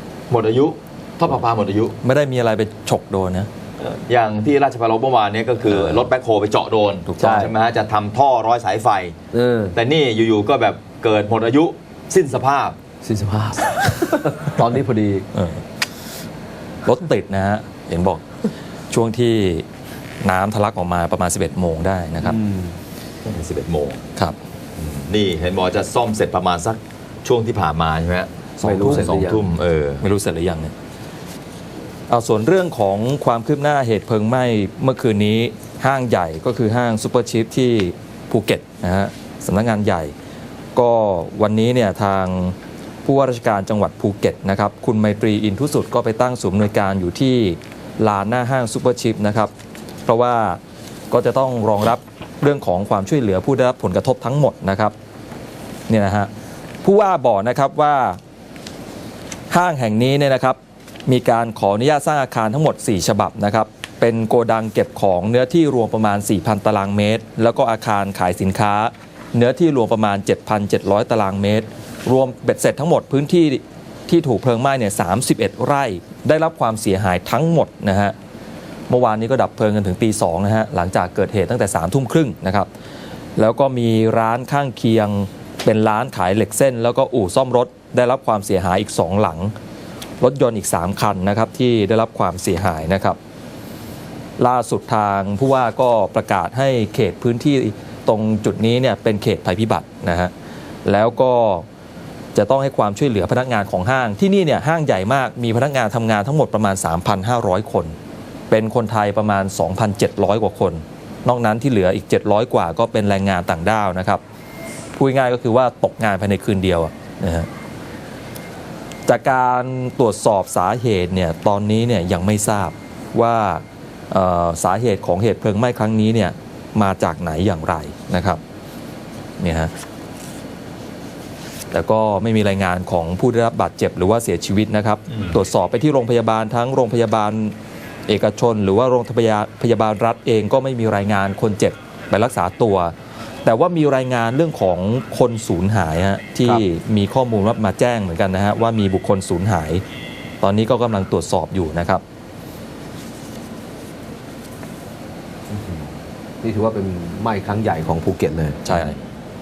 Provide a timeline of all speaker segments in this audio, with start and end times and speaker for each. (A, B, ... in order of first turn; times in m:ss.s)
0:00.3-0:02.0 A
0:02.0-0:03.5 B
0:03.8-0:09.2 A
0:05.7-0:06.1 B
0:07.1-0:07.5 B
0:07.2-0:07.5 C
0:09.3-0:09.8 C
0:09.7-0:12.8 A
0:13.0-0:15.3 C
0:15.3-0:15.7 B
0:16.8-0:18.2 B
0:18.9-0:19.7 B
0:20.2-0:22.4 B
0:22.2-0:22.8 C
0:23.2-0:24.0 A
0:24.8-0:30.0 A
0:28.6-0:29.4 B
0:28.6-0:29.4 C
0:30.0-0:30.7 B
0:32.1-0:40.1 B
0:40.8-0:49.5 B
0:50.1-0:50.6 B
0:51.1-0:54.9 B
0:55.9-0:56.3 B
0:56.8-0:58.2 B
0:59.5-1:18.2 B
1:18.9-1:22.7 B
1:23.4-1:29.5 B
1:30.2-1:33.2 B
1:34.4-1:40.3 B
1:40.8-1:41.7 B
1:42.4-1:48.0 B
1:48.5-1:54.2 B
1:55.0-1:57.5 B
1:59.1-2:08.4 B
2:09.4-2:09.7 B
2:11.7-2:17.6 B
2:15.1-2:15.4 A
2:18.1-2:22.9 B
2:23.4-2:29.8 B
2:30.4-2:32.0 B
2:36.4-2:38.6 C
2:38.6-2:39.0 B
2:38.7-2:39.0 A